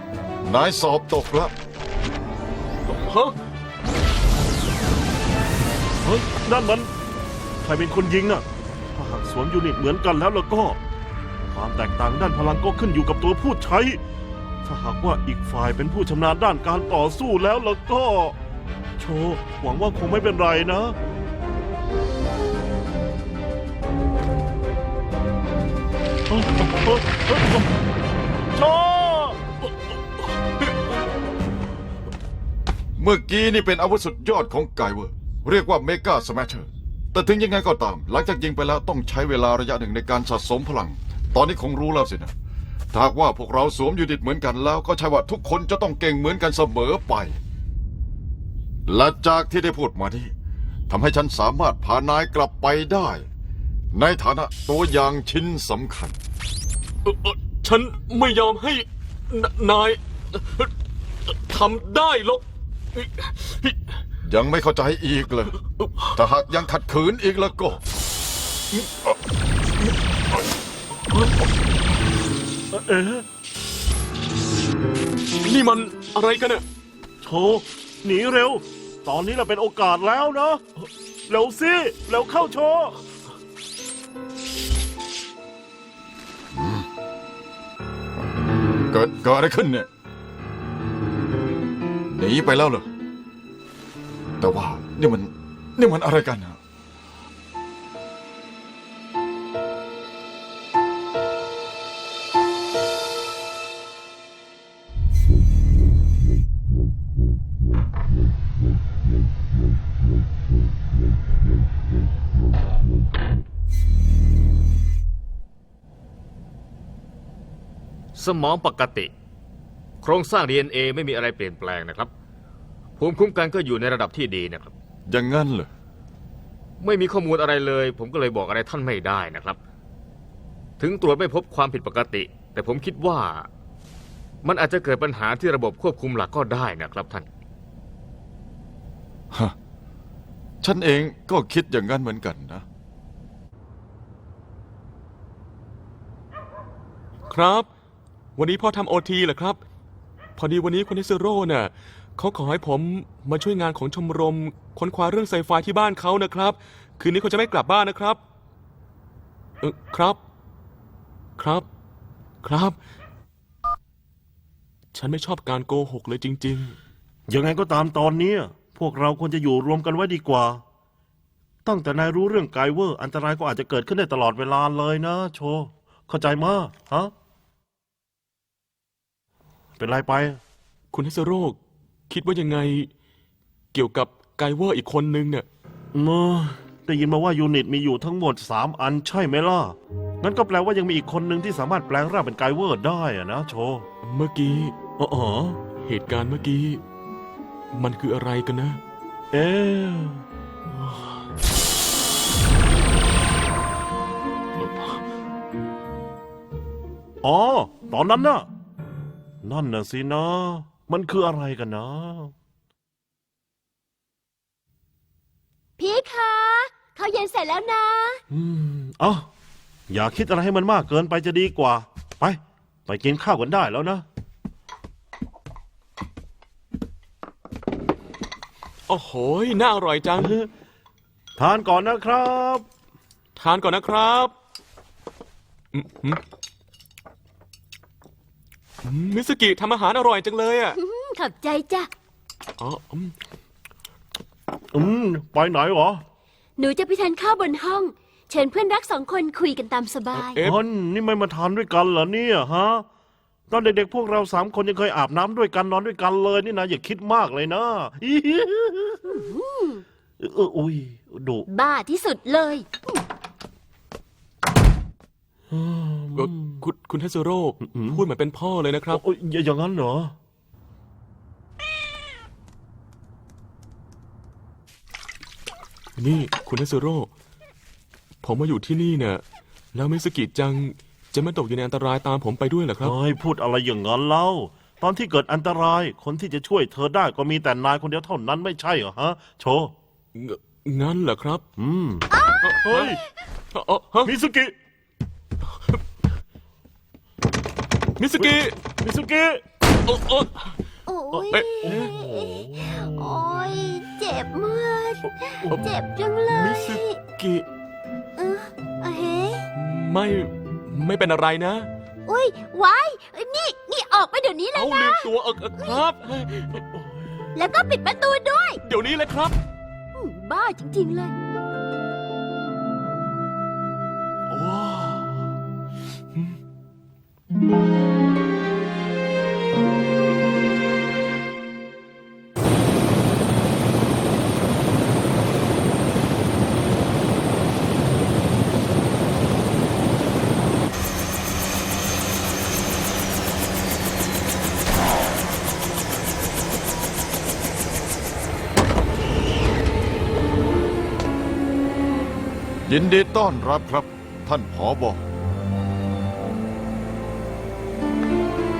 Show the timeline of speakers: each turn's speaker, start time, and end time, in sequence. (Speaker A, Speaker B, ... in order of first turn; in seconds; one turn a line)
Speaker A: 0.4-1.5
Speaker B: 2.9-3.3
Speaker C: 6.0-6.9
Speaker C: 7.6-10.8
Speaker C: 11.5-14.0
Speaker C: 14.6-18.4
Speaker C: 19.0-20.9
Speaker C: 26.3-27.7
Speaker C: 28.5-29.4
Speaker A: 33.0-42.3
Speaker A: 42.9-47.4
Speaker A: 48.9-50.3
Speaker A: 50.9-53.2
Speaker A: 53.9-56.1
Speaker B: 57.0-60.7
Speaker B: 61.3-62.4
Speaker B: 62.9-63.8
Speaker A: 64.2-65.5
Speaker B: 65.8-66.1
Speaker A: 66.1-67.8
Speaker C: 72.7-73.2
Speaker B: 75.4-76.6
Speaker C: 77.2-83.0
Speaker A: 86.5-86.9
Speaker A: 88.9-89.9
Speaker A: 92.1-92.9
Speaker A: 94.4-96.6
Speaker D: 118.2-119.1
Speaker D: 120.0-122.1
Speaker D: 123.0-124.7
Speaker A: 125.1-125.7
Speaker D: 126.8-129.6
Speaker D: 130.8-133.5
Speaker D: 134.4-137.3
Speaker A: 140.6-142.6
Speaker B: 147.3-147.7
Speaker B: 148.4-149.6
Speaker B: 150.4-158.2
Speaker B: 159.6-160.2
Speaker B: 161.4-161.7
Speaker B: 162.4-162.8
Speaker B: 164.9-166.8
Speaker C: 167.3-170.6
Speaker C: 171.6-177.1
Speaker C: 179.8-180.4
Speaker B: 180.9-181.6
Speaker B: 182.1-182.9
Speaker B: 183.7-185.4
Speaker C: 185.9-193.8
Speaker B: 194.0-194.7
Speaker C: 195.0-195.6
Speaker B: 195.8-196.8
Speaker B: 197.7-198.8
Speaker C: 199.3-200.2
Speaker B: 204.6-205.0
Speaker C: 207.2-208.5
Speaker C: 209.4-212.3
Speaker E: 215.8-218.2
Speaker C: 218.3-219.3
Speaker C: 219.9-224.0
Speaker B: 228.9-230.3
Speaker C: 230.2-230.5
Speaker C: 231.3-232.6
Speaker B: 233.4-234.3
Speaker B: 235.7-236.2
Speaker B: 238.8-240.8
Speaker E: 240.7-241.9
Speaker B: 242.6-243.1
Speaker C: 244.7-246.0
Speaker E: 246.6-250.4
Speaker B: 250.1-250.6
Speaker C: 250.4-252.8
Speaker C: 253.5-259.2
Speaker E: 259.1-259.8
Speaker C: 260.2-261.5
Speaker E: 261.5-263.0
Speaker C: 265.5-266.6
Speaker B: 266.1-269.0
Speaker C: 267.6-268.0
Speaker C: 268.9-270.1
Speaker B: 276.0-277.1
Speaker B: 278.2-279.2
Speaker B: 279.7-282.9
Speaker C: 282.8-289.7
Speaker B: 290.1-291.4
Speaker C: 291.6-292.1
Speaker E: 292.1-292.6
Speaker B: 292.4-292.9
Speaker C: 292.6-293.0
Speaker B: 293.5-294.1
Speaker C: 294.0-294.5
Speaker B: 298.0-298.5
Speaker C: 298.2-299.4
Speaker B: 299.9-300.5
Speaker E: 300.9-307.0
Speaker C: 301.1-303.3
Speaker B: 301.3-301.9
Speaker B: 306.3-307.4
Speaker E: 308.2-309.4
Speaker B: 309.5-311.7
Speaker E: 312.1-315.8
Speaker B: 314.5-316.6
Speaker C: 316.8-317.2
Speaker E: 317.3-318.6
Speaker B: 318.6-319.3
Speaker E: 319.9-321.1
Speaker B: 324.3-325.0
Speaker A: 352.7-355.0